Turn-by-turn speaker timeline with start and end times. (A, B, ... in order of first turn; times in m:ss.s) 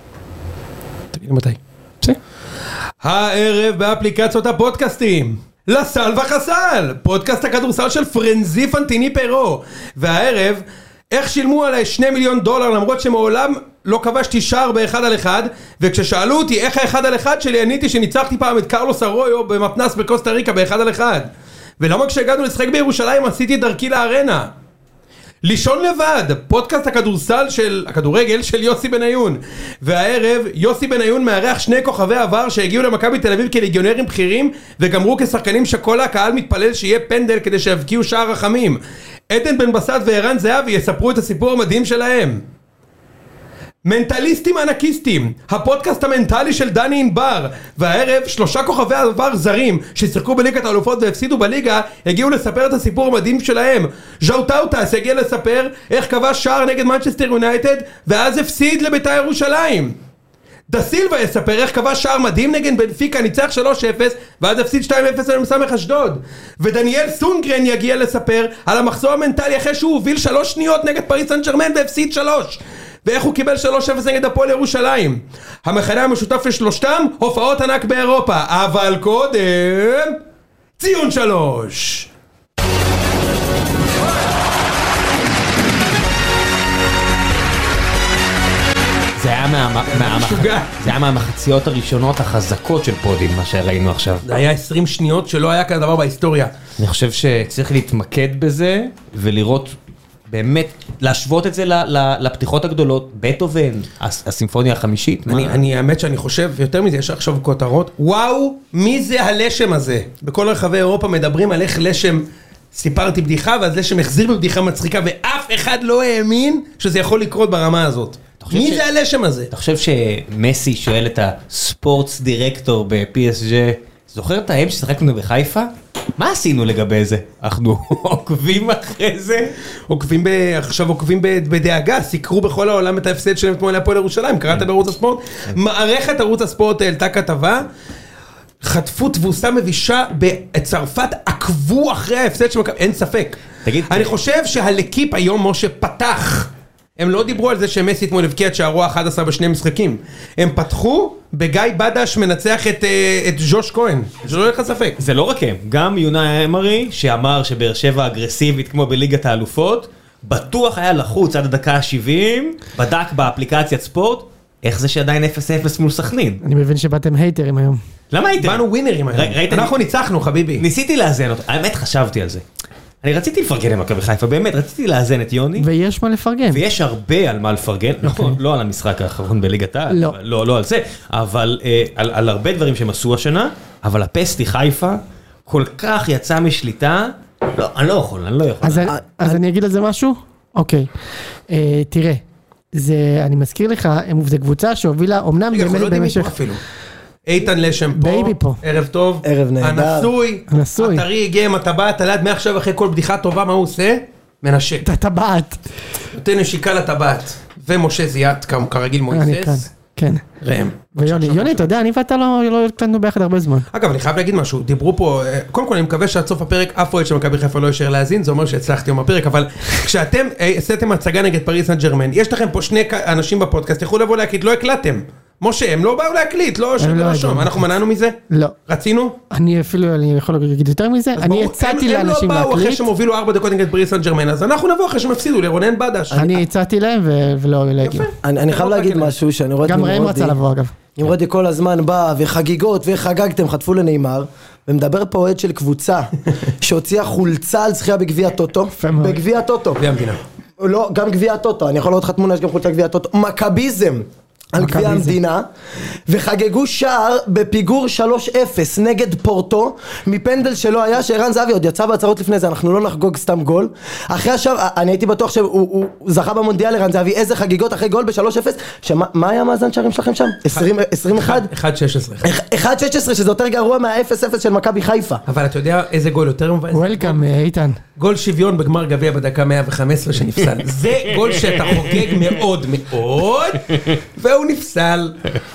0:01.1-0:02.2 A
0:03.0-0:21.3 A
0:21.8-0:24.5 A
0:25.4-0:38.8 A
0:39.3-0:42.4 A
0:43.8-1:00.0 A
1:00.7-1:20.2 A
1:20.8-1:22.1 A
1:29.2-1:34.2 B
1:29.9-1:30.7 A
1:34.2-1:36.5 A
1:36.8-1:39.8 B
1:40.3-1:45.6 B
1:45.3-1:59.5 A
1:58.4-1:58.8 B
1:59.5-2:09.5 B
2:09.9-2:17.7 A
2:18.6-2:35.0 A
2:23.6-2:24.1 B
2:35.0-2:46.4 B
2:46.4-2:47.8 C
2:48.1-2:49.7 B
2:48.4-2:50.6 A
2:50.6-2:52.4 B
2:53.0-2:55.7 B
2:55.6-2:56.6 C
2:56.5-3:08.9 B
2:58.0-2:58.4 C
2:59.9-3:00.2 C
3:08.6-3:10.9 C
3:08.9-3:09.4 D
3:11.5-3:12.2 C
3:12.7-3:16.3 C
3:15.5-3:16.6 A
3:17.2-3:24.8 A
3:18.0-3:18.6 C
3:19.2-3:20.1 D
3:20.5-3:21.0 C
3:24.8-3:25.6 C
3:26.1-3:29.6 A
3:29.1-3:30.2 C
3:30.4-3:31.7 A
3:31.0-3:33.7 C
3:33.7-3:49.2 A
3:46.8-3:47.6 C
3:48.3-3:48.5 C
3:49.3-3:52.8 C
3:51.2-3:56.2 A
3:56.1-3:56.4 D
3:56.1-3:58.1 C
3:57.8-3:59.1 A
3:58.2-4:00.4 D
3:59.7-4:00.7 C
4:01.0-4:09.8 D
4:08.8-4:09.2 C
4:09.8-4:10.2 A
4:10.6-4:15.5 D
4:14.6-4:15.2 C
4:16.1-4:31.5 D
4:30.5-4:32.3 A
4:32.2-4:35.2 D
4:35.3-4:37.2 A
4:36.7-4:37.8 C
4:38.0-4:45.4 A